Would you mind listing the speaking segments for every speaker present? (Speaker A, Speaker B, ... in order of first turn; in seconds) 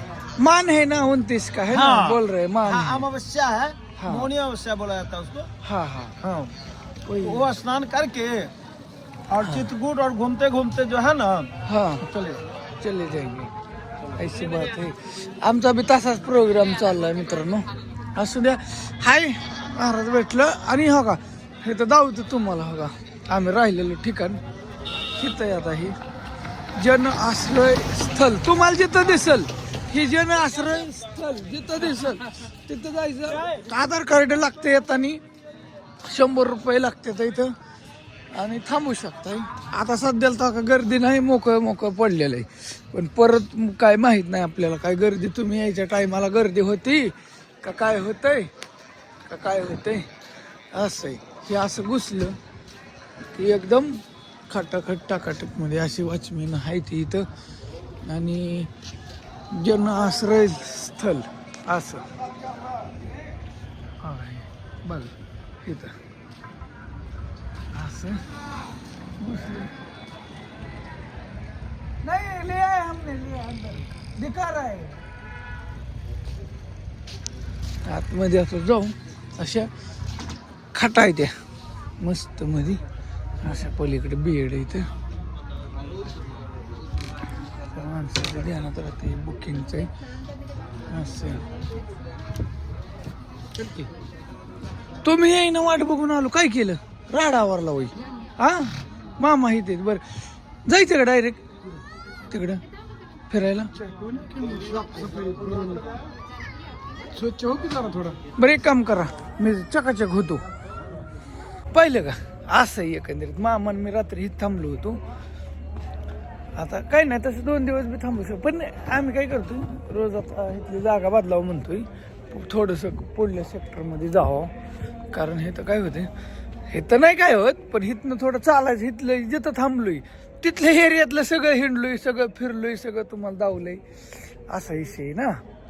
Speaker A: 0.4-3.1, 4.0-4.3, 5.6-6.2, 7.1-7.5, 9.4-9.7, 11.7-12.1, 12.8-13.5, 14.1-24.4, 25.2-26.0, 26.8-35.2, 36.0-37.5, 38.3-48.5, 49.3-50.1, 50.7-52.4, 53.3-57.3, 58.0-58.7, 59.5-62.1, 64.0-65.1, 65.6-65.9, 67.7-68.2, 69.2-69.7, 72.0-75.0, 77.8-79.7, 80.7-81.3, 82.0-82.8, 83.4-84.9, 87.7-89.9, 90.9-91.4, 95.0-101.4, 102.3-102.6, 103.3-103.7, 108.4-110.4, 111.7-115.0, 116.5-124.5, 125.1-126.1, 126.7-135.4
Speaker B: 1.7-5.5, 6.2-6.5, 7.2-8.5, 9.3-12.4
Speaker C: 93.6-93.9, 103.8-106.0, 107.1-108.2